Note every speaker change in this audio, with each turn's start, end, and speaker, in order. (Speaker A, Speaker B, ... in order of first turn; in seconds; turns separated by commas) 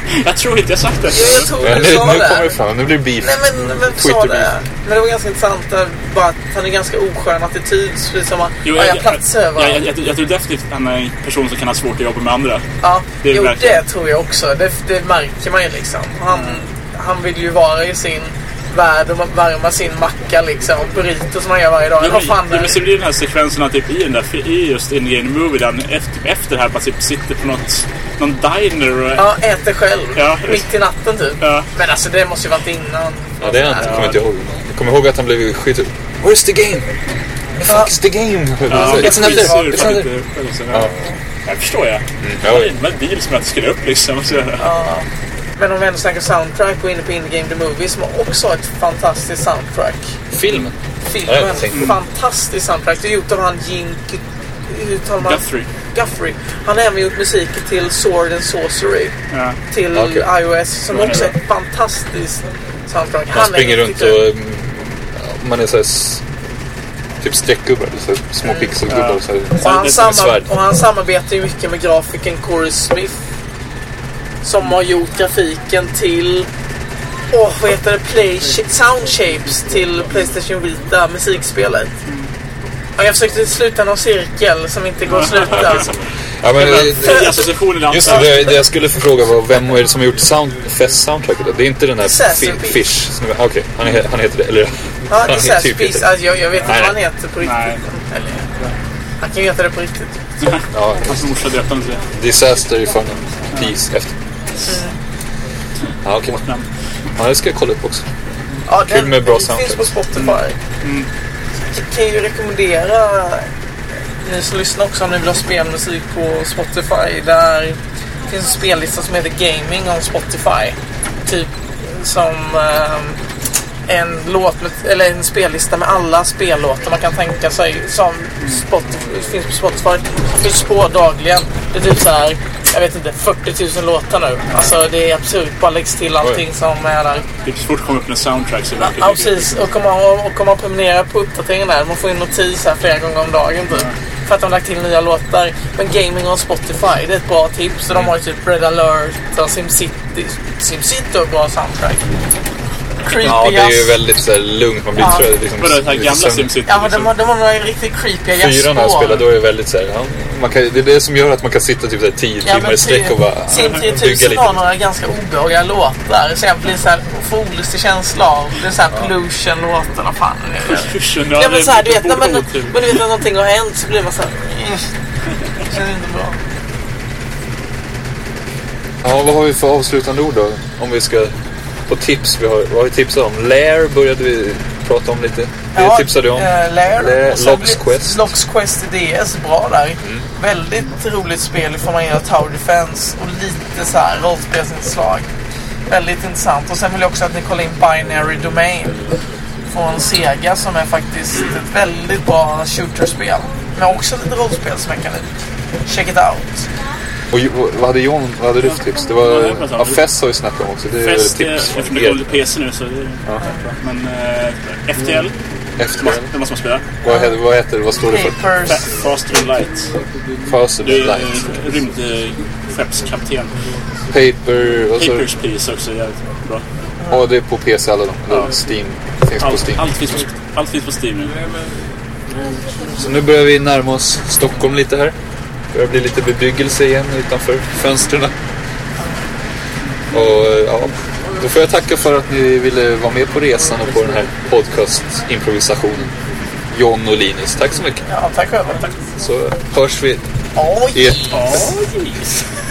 Speaker A: 0.1-1.5, Speaker B: 1.1-2.5, Speaker C: 1.6-4.5, Speaker B: 3.2-9.8, Speaker A: 8.6-12.6, Speaker B: 12.8-22.9, Speaker A: 13.2-13.8, Speaker A: 16.3-16.6, Speaker A: 22.0-29.3, Speaker B: 29.1-33.9, Speaker A: 30.1-30.6, Speaker A: 31.4-31.7, Speaker C: 33.4-36.9, Speaker A: 33.8-34.2, Speaker C: 37.6-40.0, Speaker B: 37.6-37.9, Speaker A: 38.7-40.9, Speaker B: 38.7-40.1, Speaker A: 41.4-44.6, Speaker C: 42.2-42.7, Speaker B: 44.6-45.0, Speaker B: 45.6-50.1, Speaker C: 50.3-51.9, Speaker B: 51.1-59.1, Speaker A: 51.7-52.0, Speaker A: 55.2-55.7, Speaker A: 59.3-59.6, Speaker B: 59.7-64.2, Speaker C: 59.9-60.3, Speaker A: 60.9-61.3, Speaker C: 63.3-66.2, Speaker C: 67.2-70.5, Speaker B: 68.4-68.7, Speaker A: 68.9-69.9, Speaker B: 69.6-73.2, Speaker B: 74.4-76.5, Speaker B: 77.3-81.9, Speaker A: 82.0-82.3, Speaker B: 83.0-85.9, Speaker A: 85.1-85.9, Speaker C: 85.5-97.0, Speaker A: 86.6-88.7, Speaker B: 87.0-87.4, Speaker B: 92.0-92.8, Speaker B: 95.1-98.5, Speaker A: 97.4-97.8, Speaker B: 99.2-100.2, Speaker A: 100.4-102.1, Speaker C: 100.7-101.3, Speaker C: 102.1-104.1, Speaker B: 104.7-104.9, Speaker C: 106.0-106.4, Speaker A: 106.3-106.7, Speaker C: 107.2-108.0, Speaker B: 108.7-110.5, Speaker C: 108.8-109.9, Speaker A: 110.2-111.1, Speaker B: 111.7-113.4, Speaker B: 114.2-123.2, Speaker B: 123.9-137.2, Speaker A: 137.4-139.7, Speaker B: 138.8-152.0, Speaker B: 153.0-153.9, Speaker C: 153.1-156.5, Speaker B: 155.0-155.2, Speaker A: 155.6-157.1, Speaker B: 156.7-159.2, Speaker C: 158.3-164.6, Speaker B: 162.4-174.9, Speaker A: 170.7-173.0, Speaker B: 175.7-176.4, Speaker C: 179.0-181.3, Speaker C: 181.9-188.3, Speaker B: 185.7-195.2, Speaker B: 195.9-199.0, Speaker B: 199.7-205.2, Speaker B: 205.8-206.7, Speaker C: 207.3-212.3, Speaker A: 209.2-210.0, Speaker A: 211.0-215.4, Speaker C: 215.8-216.3, Speaker A: 216.0-216.8, Speaker C: 217.0-218.4, Speaker B: 217.1-217.4, Speaker B: 218.1-218.8, Speaker A: 218.7-219.9, Speaker C: 220.4-221.5, Speaker A: 220.8-223.5, Speaker C: 224.1-225.2, Speaker A: 224.9-226.6, Speaker C: 227.1-229.9, Speaker A: 229.4-231.4, Speaker C: 232.9-235.1, Speaker C: 235.7-238.3, Speaker C: 240.1-246.1, Speaker C: 246.7-248.0, Speaker B: 248.1-248.9, Speaker C: 249.2-250.2, Speaker B: 250.6-251.8, Speaker C: 250.9-251.2, Speaker A: 251.3-252.3